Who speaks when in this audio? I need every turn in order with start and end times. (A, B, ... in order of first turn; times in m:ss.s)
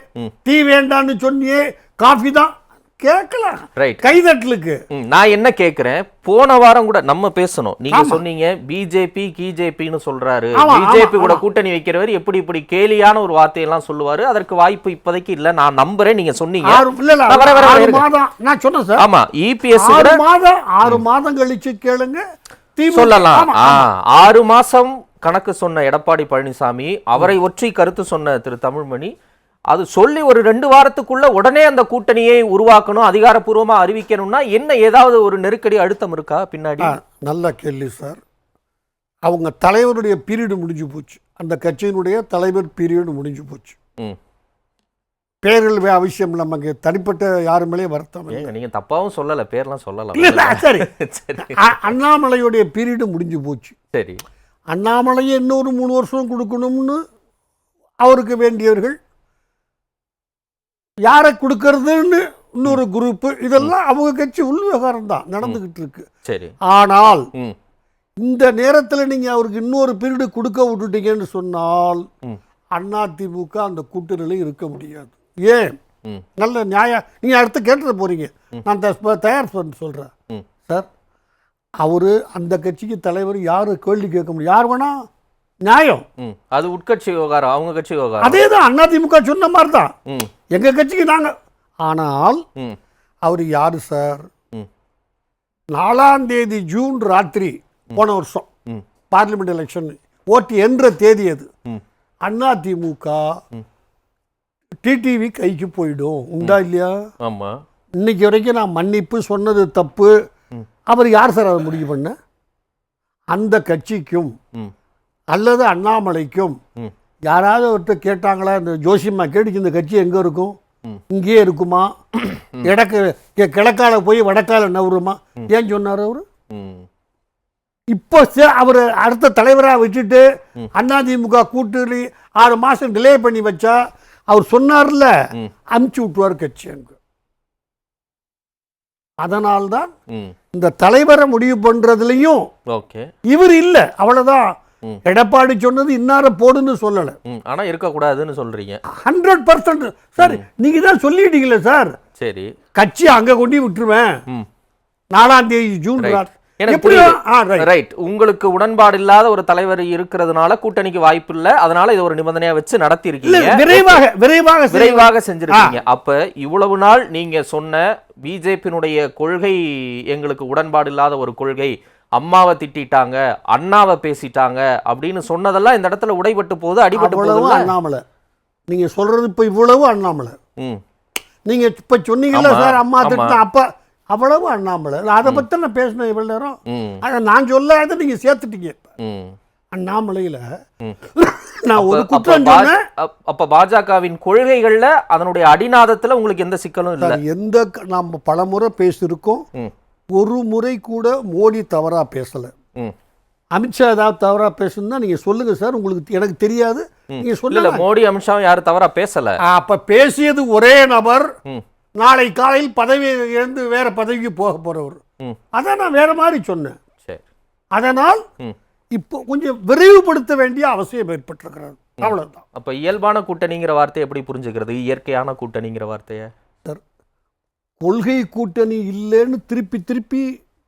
0:00.4-0:04.8 A
0:03.8-0:04.0 B
0:04.9-0:18.0 B
0:07.9-0:08.2 A
0:10.6-0:11.4 A
0:16.6-0:19.0 A
0:19.0-0:20.2 B
0:19.7-0:22.2 A
0:22.8-0:23.8 A
0:22.9-0:29.1 B
0:29.7-0:37.0 B
0:36.8-0:38.2 A
0:39.3-0:43.7 A
0:45.4-0:48.5 A
0:48.3-0:51.9 B
0:50.1-0:50.9 A
0:51.4-0:53.7 A
0:53.9-0:54.2 B
0:54.7-0:57.0 A
0:58.0-0:59.0 A
1:01.0-1:06.0 A
1:06.3-1:06.5 B
1:06.7-1:07.2 A
1:08.2-1:12.0 A
1:12.7-1:15.7 A
1:16.4-1:20.1 A
1:21.8-1:24.9 A
1:25.6-1:26.0 A
1:26.2-1:28.4 B
1:28.2-1:29.9 A
1:30.5-1:31.3 A
1:31.8-1:32.4 A
1:33.2-1:34.3 A
1:35.7-1:38.5 A
1:39.1-1:41.5 A
1:42.2-1:43.3 A
1:44.8-1:46.9 A
1:47.2-1:47.5 B
1:48.0-1:50.1 A
1:50.9-1:52.1 A
1:53.3-1:54.3 A
1:55.3-1:56.6 A
1:57.3-2:00.6 A
2:01.1-2:06.2 A
2:06.5-2:06.8 B
2:07.9-2:13.8 A
2:14.3-2:15.1 A
2:15.7-2:16.9 A
2:19.2-2:19.9 A
2:20.5-2:22.4 A
2:22.7-2:23.1 B
2:23.3-2:24.5 A
2:25.0-2:27.2 A
2:27.3-2:28.8 B
2:28.9-2:32.0 A
2:32.2-2:32.5 B
2:32.8-2:34.2 A
2:35.1-2:37.7 A
2:36.0-2:44.0 B
2:43.2-2:45.8 A
2:44.7-2:49.6 B
2:50.1-2:57.7 B
2:56.9-2:58.0 A
2:58.7-3:00.4 A
3:01.4-3:08.8 A
3:02.3-3:03.4 B
3:06.7-3:07.0 B
3:09.0-3:09.3 B
3:09.7-3:10.4 A
3:11.1-3:12.8 A
3:11.8-3:17.2 B
3:17.0-3:19.4 A
3:20.1-3:22.5 A
3:23.5-3:27.8 A
3:27.1-3:29.3 B
3:29.5-3:31.3 A
3:32.0-3:35.0 A
3:35.5-3:36.8 A
3:37.7-3:38.2 A
3:39.0-3:42.4 A
3:42.0-3:46.3 B
3:47.8-3:50.3 A